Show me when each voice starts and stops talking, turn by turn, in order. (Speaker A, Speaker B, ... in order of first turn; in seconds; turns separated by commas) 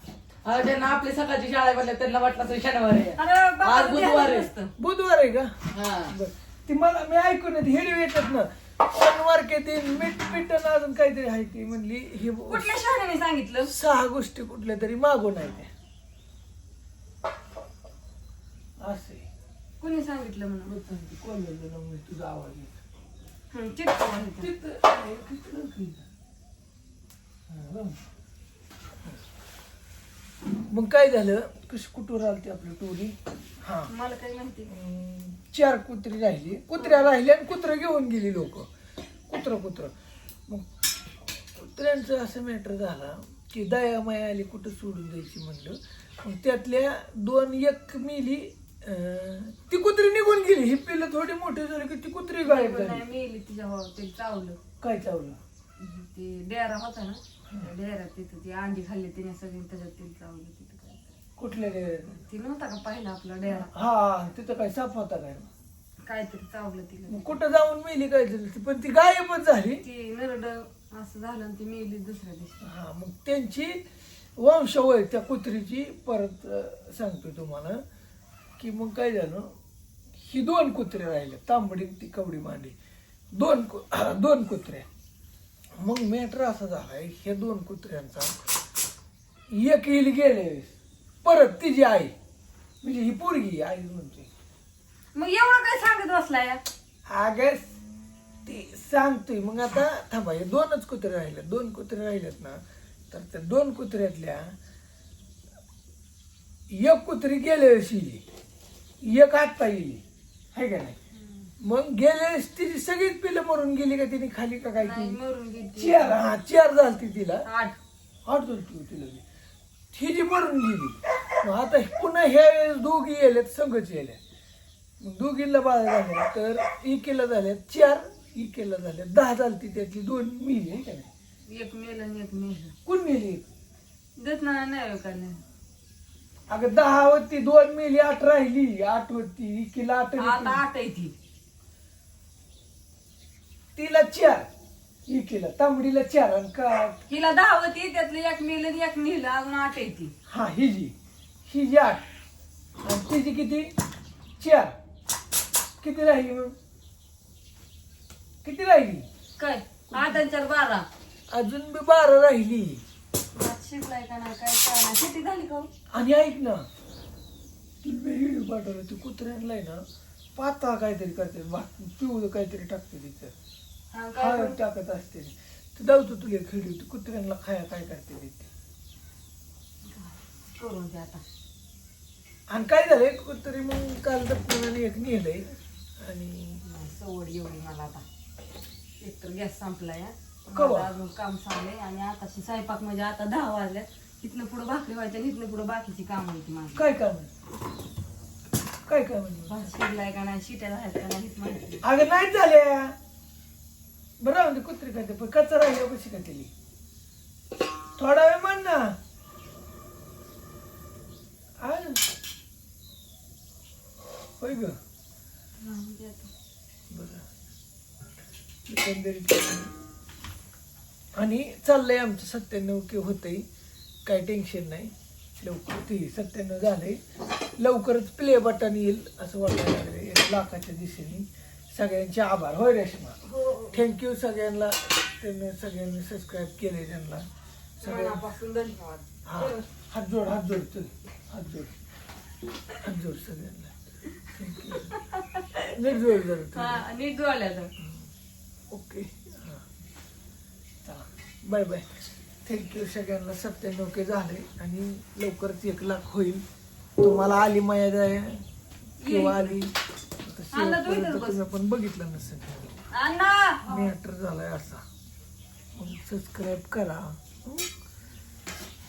Speaker A: 0.4-4.5, Speaker B: 3.2-4.7, Speaker C: 4.8-5.5, Speaker A: 5.7-6.1, Speaker C: 6.1-12.7, Speaker B: 12.5-13.7, Speaker C: 13.7-15.7, Speaker C: 18.8-19.3, Speaker B: 19.8-20.7, Speaker C: 20.6-22.8, Speaker B: 23.5-24.5, Speaker C: 24.1-26.0, Speaker C: 27.5-28.0, Speaker C: 30.7-33.9, Speaker B: 33.9-34.7, Speaker C: 34.7-38.7, Speaker C: 39.3-39.9, Speaker C: 41.5-53.0, Speaker B: 52.4-54.6, Speaker C: 54.8-55.4, Speaker B: 55.8-61.1, Speaker C: 61.4-62.2, Speaker B: 62.3-63.7, Speaker C: 63.5-65.5, Speaker B: 66.0-67.3, Speaker C: 67.1-69.8, Speaker B: 69.8-72.6, Speaker C: 72.6-73.8, Speaker C: 74.4-77.8, Speaker C: 78.6-79.5, Speaker C: 80.2-82.8, Speaker C: 83.3-84.9, Speaker C: 85.8-88.3, Speaker C: 89.5-92.1, Speaker C: 92.8-94.3, Speaker B: 95.1-96.6, Speaker C: 97.1-97.7, Speaker C: 98.4-104.5, Speaker C: 106.7-108.2, Speaker C: 109.0-110.0, Speaker C: 110.5-111.0, Speaker B: 111.1-111.5, Speaker C: 111.6-115.2, Speaker B: 114.8-116.2, Speaker C: 115.8-117.5, Speaker B: 117.4-117.8, Speaker C: 118.2-119.2, Speaker C: 119.9-124.2, Speaker C: 125.0-131.1, Speaker B: 131.5-132.7, Speaker C: 132.8-133.4, Speaker B: 134.2-135.4, Speaker C: 136.5-140.6, Speaker B: 140.2-141.1, Speaker C: 143.7-144.5, Speaker C: 145.1-147.0, Speaker B: 147.1-150.1, Speaker C: 150.3-150.9, Speaker C: 151.4-152.0, Speaker C: 152.8-153.7, Speaker C: 154.4-154.7, Speaker C: 155.8-156.5, Speaker C: 158.4-159.1, Speaker B: 159.4-160.9, Speaker C: 159.9-160.2, Speaker C: 161.3-162.8, Speaker B: 163.3-165.7, Speaker C: 165.9-166.6, Speaker C: 167.8-169.8, Speaker C: 170.3-173.3, Speaker B: 173.9-174.6, Speaker C: 174.2-178.5, Speaker B: 179.8-181.2, Speaker C: 182.5-186.6, Speaker B: 186.6-188.0, Speaker B: 189.0-196.9, Speaker C: 190.5-190.9, Speaker C: 196.7-197.3, Speaker C: 198.9-199.7, Speaker B: 199.5-201.8, Speaker C: 201.8-202.9, Speaker C: 204.2-206.5, Speaker C: 208.0-209.0, Speaker C: 211.6-212.0, Speaker C: 214.4-214.8, Speaker B: 215.6-216.3, Speaker C: 216.9-217.3, Speaker C: 218.7-219.7, Speaker C: 221.2-223.4, Speaker C: 224.1-227.0, Speaker C: 227.6-233.2, Speaker B: 233.2-233.9, Speaker C: 233.7-237.3, Speaker B: 237.8-239.7, Speaker C: 237.8-238.2, Speaker C: 239.2-241.7, Speaker C: 242.8-245.0, Speaker B: 244.9-245.5, Speaker C: 245.6-246.8, Speaker B: 246.5-247.7, Speaker C: 247.8-248.1, Speaker C: 248.7-249.6, Speaker C: 250.8-251.9, Speaker C: 252.4-256.4, Speaker C: 257.0-258.4, Speaker B: 259.0-259.6, Speaker C: 259.0-262.8, Speaker B: 260.5-261.4, Speaker B: 262.9-263.9, Speaker C: 263.7-264.8, Speaker C: 265.7-267.7